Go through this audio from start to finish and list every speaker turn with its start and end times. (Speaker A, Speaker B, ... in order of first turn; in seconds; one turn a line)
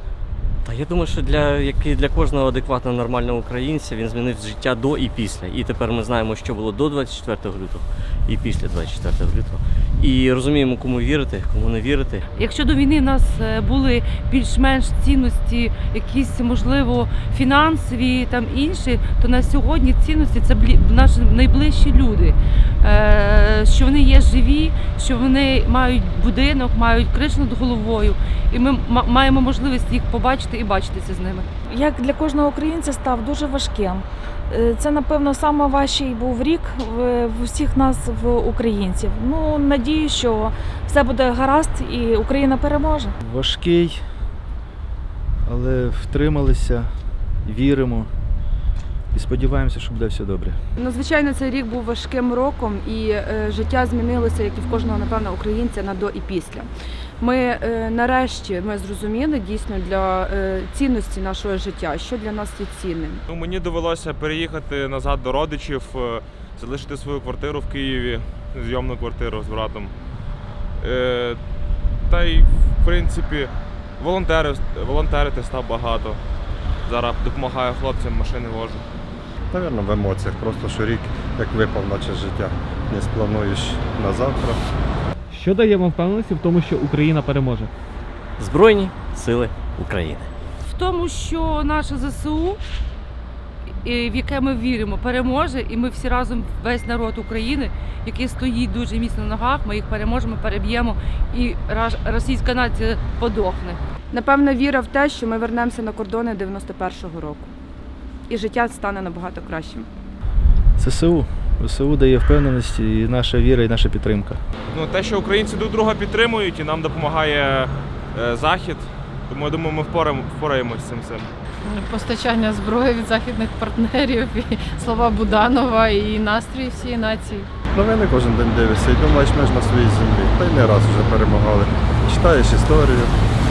Speaker A: 0.6-12.2
Speaker B: 12.3-31.4
Speaker C: 31.7-43.1
Speaker D: 43.2-44.0
Speaker D: 45.5-46.9
Speaker D: 47.4-48.1
Speaker D: 49.1-50.6
Speaker E: 50.8-56.7
Speaker E: 57.2-63.2
Speaker F: 63.3-69.9
Speaker F: 70.8-71.4
Speaker F: 72.1-76.2
Speaker F: 76.8-78.8
Speaker G: 79.5-84.6
Speaker H: 85.3-87.7
Speaker A: 88.4-90.3
Speaker B: 90.6-92.6
Speaker B: 93.8-103.8
Speaker E: 104.1-107.5
Speaker E: 108.3-109.9
Speaker D: 110.8-114.4
Speaker F: 114.7-121.3
Speaker I: 121.7-127.5
Speaker G: 127.7-133.2